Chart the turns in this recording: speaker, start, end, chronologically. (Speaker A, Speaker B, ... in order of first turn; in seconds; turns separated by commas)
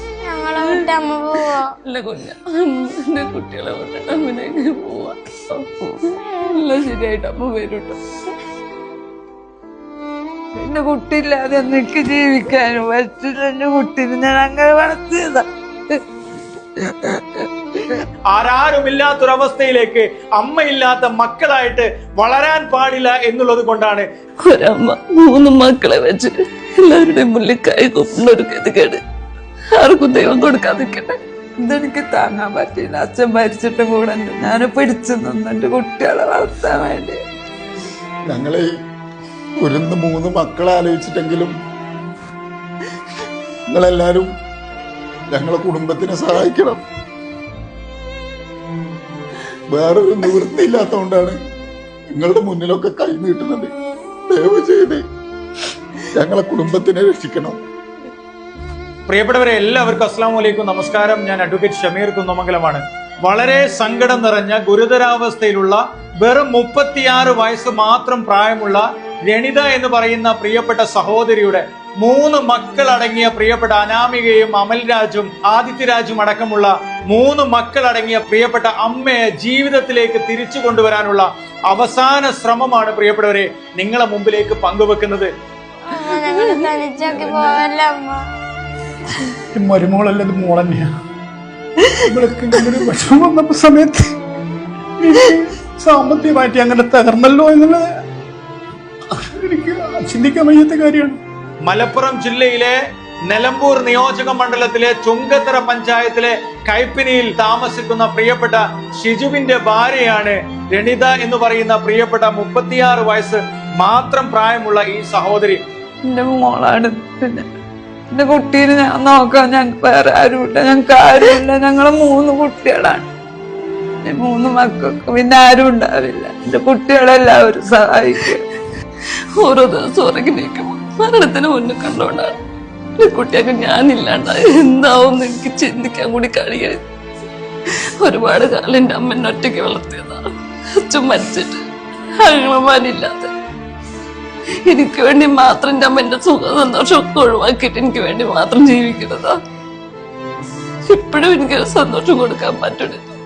Speaker A: 0.2-1.7, Speaker B: 0.6-0.9, Speaker B: 1.8-8.0, Speaker C: 10.5-16.0, Speaker C: 16.8-17.2, Speaker D: 18.3-24.1, Speaker B: 24.5-29.0, Speaker B: 29.8-31.2, Speaker C: 31.6-37.2, Speaker E: 38.3-38.7, Speaker E: 39.6-41.5, Speaker E: 43.7-44.3, Speaker E: 45.3-46.8, Speaker E: 49.7-51.4, Speaker E: 52.1-53.7, Speaker E: 54.3-55.0, Speaker E: 56.1-57.6, Speaker D: 59.1-85.3, Speaker A: 85.9-88.2, Speaker B: 85.9-87.7, Speaker F: 89.5-90.9, Speaker F: 92.0-94.1, Speaker F: 95.0-97.9, Speaker F: 99.2-101.2, Speaker D: 101.7-102.7, Speaker D: 103.3-115.6, Speaker C: 116.1-117.5, Speaker C: 118.1-123.0, Speaker C: 124.0-128.4, Speaker B: 129.4-132.3, Speaker B: 133.0-136.8, Speaker B: 138.0-140.3, Speaker B: 140.8-141.6, Speaker B: 142.2-143.3, Speaker B: 144.7-149.3, Speaker B: 150.9-153.0